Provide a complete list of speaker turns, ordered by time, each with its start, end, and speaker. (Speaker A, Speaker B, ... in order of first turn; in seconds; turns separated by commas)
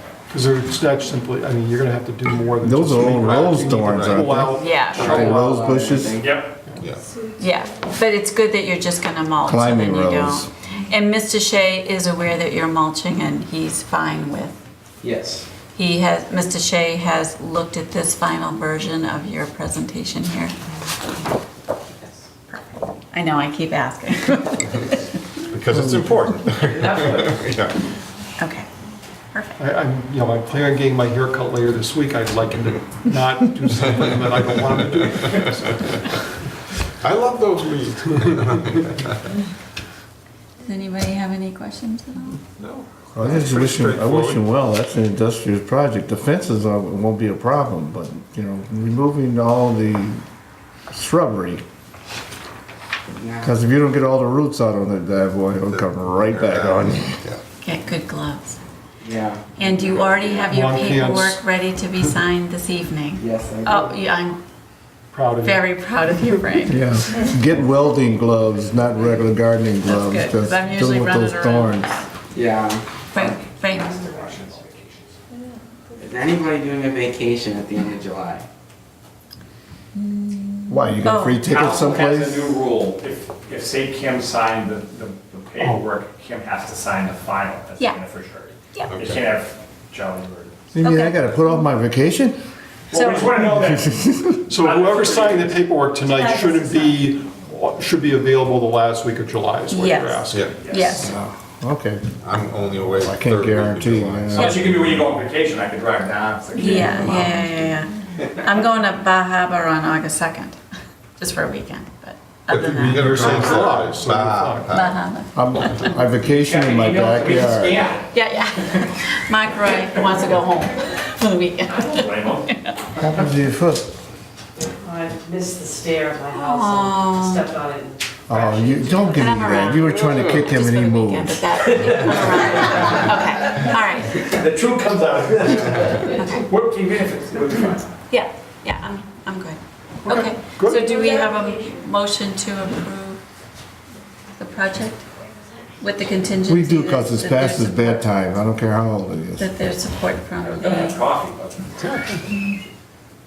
Speaker A: 0.3-5.5, Speaker B: 2.6-6.2, Speaker C: 3.2-4.3, Speaker D: 4.5-6.4, Speaker E: 4.6-5.2, Speaker F: 6.2-6.5, Speaker C: 6.8-7.0, Speaker E: 7.4-14.6, Speaker B: 9.4-10.5, Speaker D: 15.0-15.5, Speaker E: 15.7-20.5, Speaker E: 22.5-25.1, Speaker C: 25.5-27.8, Speaker B: 25.7-26.3, Speaker G: 26.6-27.4, Speaker E: 28.4-28.7, Speaker E: 29.3-29.6, Speaker A: 29.6-36.0, Speaker C: 37.0-39.1, Speaker E: 40.6-42.4, Speaker C: 42.6-44.4, Speaker B: 43.1-50.2, Speaker B: 50.9-51.6, Speaker D: 53.1-53.5, Speaker B: 53.4-57.2, Speaker C: 55.7-57.4, Speaker E: 57.6-58.6, Speaker D: 59.0-59.5, Speaker E: 59.5-64.4, Speaker A: 60.5-61.4, Speaker D: 63.2-64.0, Speaker A: 65.1-65.6, Speaker E: 65.4-66.9, Speaker B: 66.7-71.9, Speaker E: 69.8-72.0, Speaker D: 72.3-73.2, Speaker E: 73.1-74.0, Speaker F: 73.6-75.1, Speaker D: 76.0-78.5, Speaker E: 80.0-80.4, Speaker B: 80.7-82.5, Speaker E: 81.0-81.5, Speaker F: 81.4-90.6, Speaker C: 88.9-89.2, Speaker B: 90.7-92.4, Speaker E: 90.8-91.4, Speaker F: 92.9-95.6, Speaker E: 92.9-93.4, Speaker B: 93.3-94.4, Speaker A: 94.5-100.9, Speaker E: 96.1-97.0, Speaker E: 99.7-101.1, Speaker C: 100.3-100.5, Speaker F: 100.6-100.9, Speaker B: 101.0-104.7, Speaker C: 102.2-105.0, Speaker E: 104.3-104.7, Speaker F: 104.4-107.4, Speaker E: 106.5-110.6, Speaker E: 111.2-113.5, Speaker C: 112.5-115.0, Speaker A: 112.5-114.7, Speaker E: 114.7-115.3, Speaker B: 115.3-117.8, Speaker F: 116.3-118.0, Speaker E: 118.1-122.7, Speaker F: 121.8-122.5, Speaker B: 123.0-123.9, Speaker G: 124.6-129.2, Speaker E: 126.3-127.5, Speaker B: 128.3-131.7, Speaker E: 129.1-134.3, Speaker C: 129.9-130.3, Speaker F: 134.2-137.9, Speaker E: 138.1-143.2, Speaker A: 140.1-141.0, Speaker E: 144.4-145.1, Speaker E: 145.8-148.1, Speaker B: 146.4-149.5, Speaker E: 149.4-151.0, Speaker F: 150.4-152.1